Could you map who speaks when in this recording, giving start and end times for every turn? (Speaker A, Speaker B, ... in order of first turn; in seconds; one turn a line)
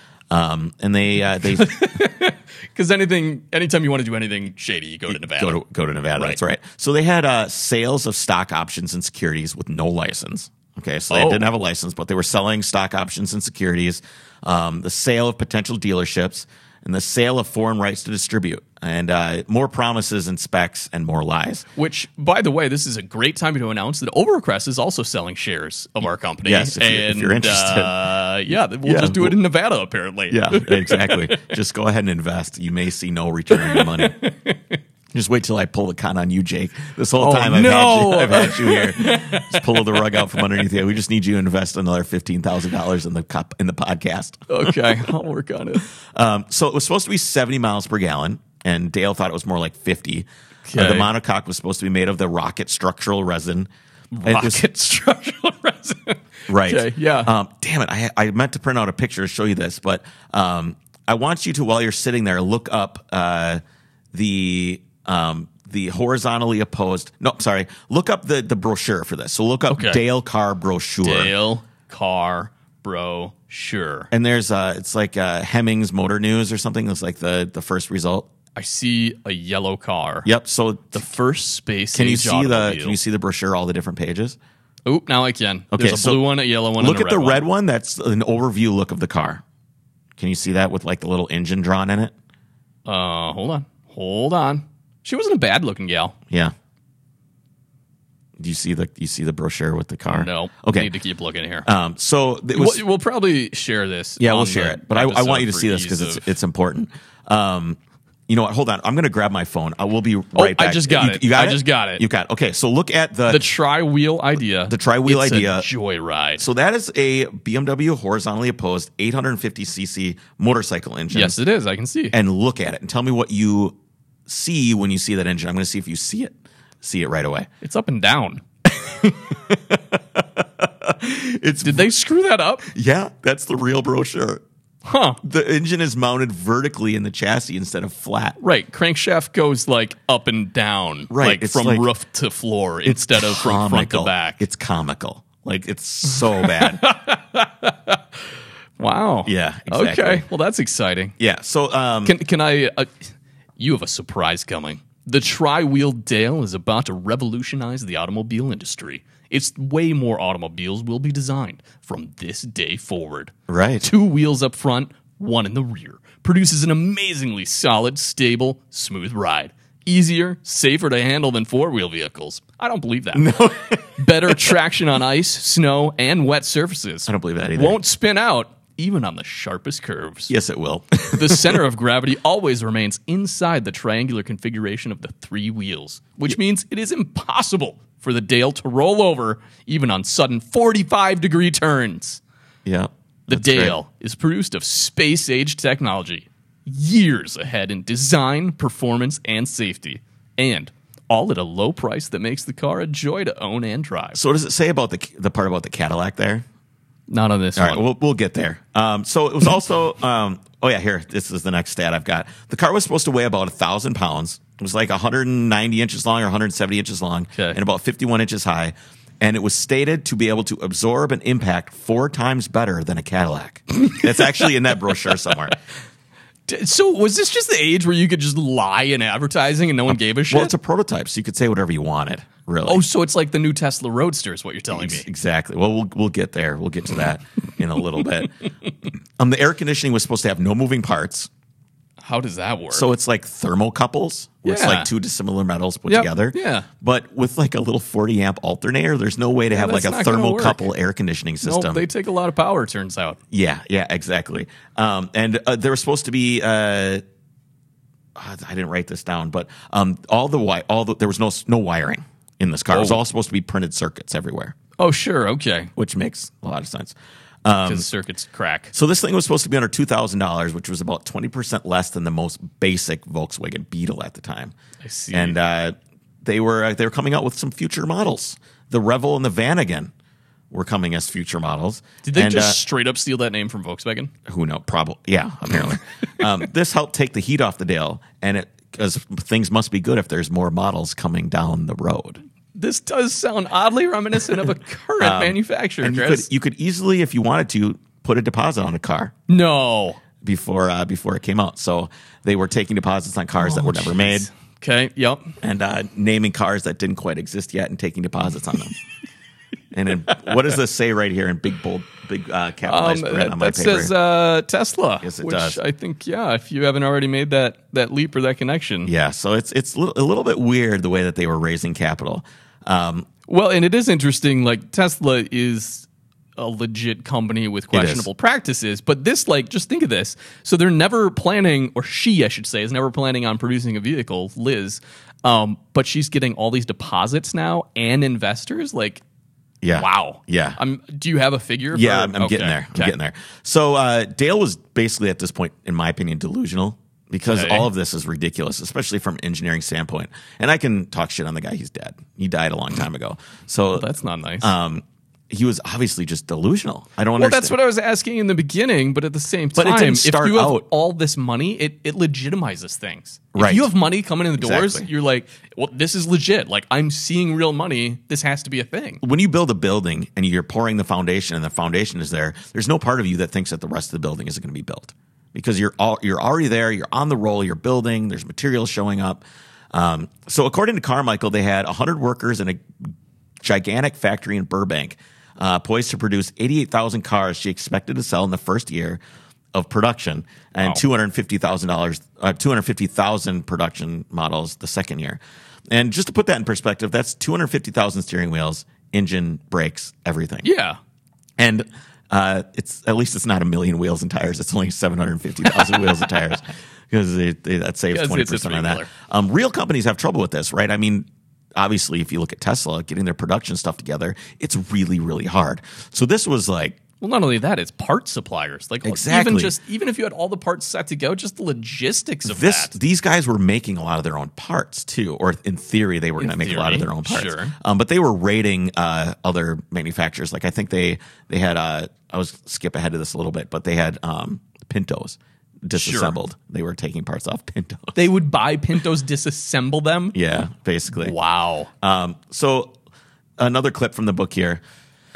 Speaker A: 0.3-2.0
Speaker B: 1.5-5.6
Speaker A: 5.1-21.6
Speaker B: 11.1-11.5
Speaker B: 21.8-31.4
Speaker A: 26.4-28.0
Speaker A: 28.8-29.4
Speaker A: 30.3-34.2
Speaker B: 33.5-34.8
Speaker A: 35.1-45.1
Speaker B: 37.2-40.4
Speaker B: 44.5-45.9
Speaker A: 46.0-53.7
Speaker B: 50.7-51.1
Speaker B: 54.1-57.3
Speaker A: 54.2-54.7
Speaker A: 56.5-63.6
Speaker A: 64.1-71.3
Speaker B: 69.7-70.0
Speaker B: 71.0-74.1
Speaker A: 74.1-78.3
Speaker B: 78.5-80.3
Speaker A: 80.2-81.0
Speaker B: 80.9-83.0
Speaker A: 81.9-84.4
Speaker B: 84.9-87.4
Speaker A: 85.7-86.3
Speaker A: 86.8-89.4
Speaker A: 90.2-92.1
Speaker B: 92.9-96.2
Speaker A: 98.4-100.9
Speaker B: 100.1-101.7
Speaker A: 101.7-102.8
Speaker B: 102.5-106.3
Speaker A: 104.2-113.5
Speaker B: 110.3-112.0
Speaker B: 113.3-116.5
Speaker A: 114.7-115.7
Speaker A: 116.4-121.4
Speaker B: 121.1-122.2
Speaker A: 122.1-123.8
Speaker A: 124.3-127.5
Speaker B: 127.6-128.4
Speaker A: 128.7-131.9
Speaker B: 131.6-132.7
Speaker A: 132.7-134.4
Speaker B: 134.8-135.2
Speaker A: 135.2-138.4
Speaker B: 138.4-144.4
Speaker A: 141.1-141.9
Speaker A: 142.8-146.8
Speaker B: 146.3-148.0
Speaker B: 148.8-151.2
Speaker A: 149.2-150.2
Speaker A: 151.2-152.2
Speaker B: 152.1-173.4
Speaker A: 163.5-163.9
Speaker A: 173.1-174.6
Speaker B: 174.0-180.3
Speaker A: 177.1-177.8
Speaker A: 180.3-181.6
Speaker B: 181.1-192.2
Speaker A: 192.7-193.8
Speaker B: 193.3-204.2
Speaker A: 204.1-206.4
Speaker B: 207.1-207.8
Speaker A: 207.6-225.6
Speaker B: 226.5-230.5
Speaker A: 230.3-232.8
Speaker B: 232.6-235.1
Speaker A: 234.7-238.3
Speaker A: 239.2-241.3
Speaker B: 242.0-242.9
Speaker A: 242.7-251.9
Speaker B: 244.4-244.9
Speaker B: 245.9-246.7
Speaker B: 249.5-250.7
Speaker B: 251.4-253.2
Speaker A: 253.3-257.0
Speaker A: 258.2-264.6
Speaker B: 262.7-263.0
Speaker B: 264.8-265.7
Speaker A: 265.8-267.9
Speaker B: 267.6-268.7
Speaker A: 268.7-274.5
Speaker B: 274.8-275.4
Speaker A: 275.1-279.9
Speaker A: 280.5-282.6
Speaker B: 282.0-284.1
Speaker A: 284.3-292.2
Speaker B: 292.6-296.3
Speaker A: 295.0-299.1
Speaker B: 299.3-300.0
Speaker A: 300.2-304.3
Speaker B: 303.4-305.4
Speaker A: 305.4-308.8
Speaker A: 309.7-313.9
Speaker B: 312.7-318.9
Speaker A: 315.0-315.6
Speaker A: 318.9-323.1
Speaker B: 323.3-339.0
Speaker A: 327.7-328.1
Speaker A: 339.6-340.6
Speaker B: 339.7-342.9
Speaker A: 341.7-353.9
Speaker B: 347.2-347.7
Speaker B: 353.8-354.5
Speaker A: 354.4-357.6
Speaker B: 357.2-369.0
Speaker A: 359.6-360.6
Speaker A: 363.3-363.7
Speaker A: 364.4-364.9
Speaker A: 369.0-379.2
Speaker A: 379.7-382.9
Speaker A: 383.4-389.0
Speaker A: 389.6-395.2
Speaker A: 395.7-400.5
Speaker B: 400.4-400.8
Speaker A: 401.4-416.8
Speaker B: 407.9-408.9
Speaker B: 417.0-422.8
Speaker A: 418.8-419.6
Speaker A: 422.3-438.0
Speaker B: 426.2-427.6
Speaker B: 435.8-436.2
Speaker B: 437.9-440.2
Speaker A: 440.1-441.1
Speaker B: 440.9-441.7
Speaker A: 441.8-442.7
Speaker A: 443.4-444.6